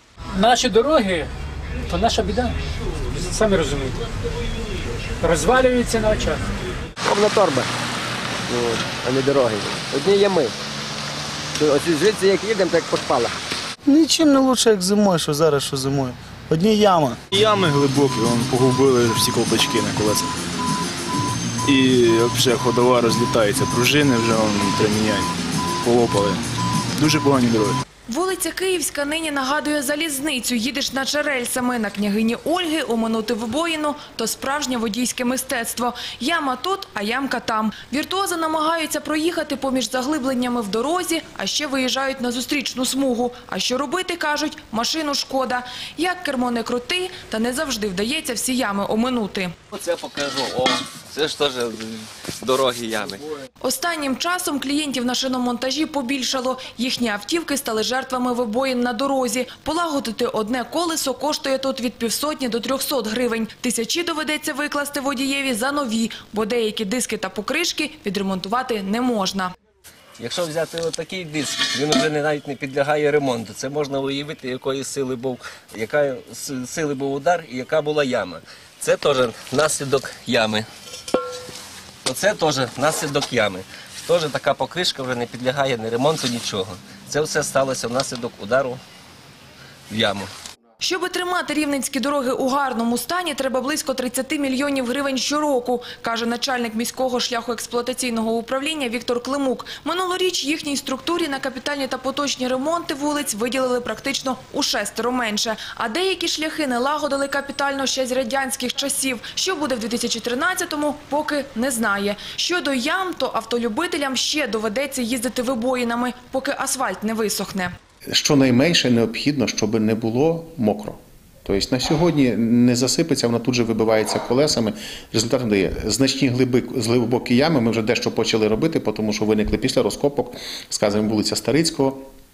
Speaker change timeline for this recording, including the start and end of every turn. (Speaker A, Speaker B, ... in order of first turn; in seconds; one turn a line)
Speaker A: 0.3-1.3
Speaker A: 1.9-2.6
Speaker A: 3.1-4.0
Speaker A: 5.2-6.4
Speaker B: 7.0-7.7
Speaker B: 8.5-10.6
Speaker B: 11.6-13.4
Speaker C: 13.9-17.2
Speaker D: 17.3-20.3
Speaker D: 21.7-26.4
Speaker D: 27.0-27.8
Speaker E: 28.1-49.5
Speaker F: 49.7-53.2
Speaker E: 53.6-69.5
Speaker F: 70.2-80.7
Speaker F: 82.0-88.8
Speaker F: 89.9-90.3
Speaker E: 90.8-117.7
Speaker G: 118.1-132.0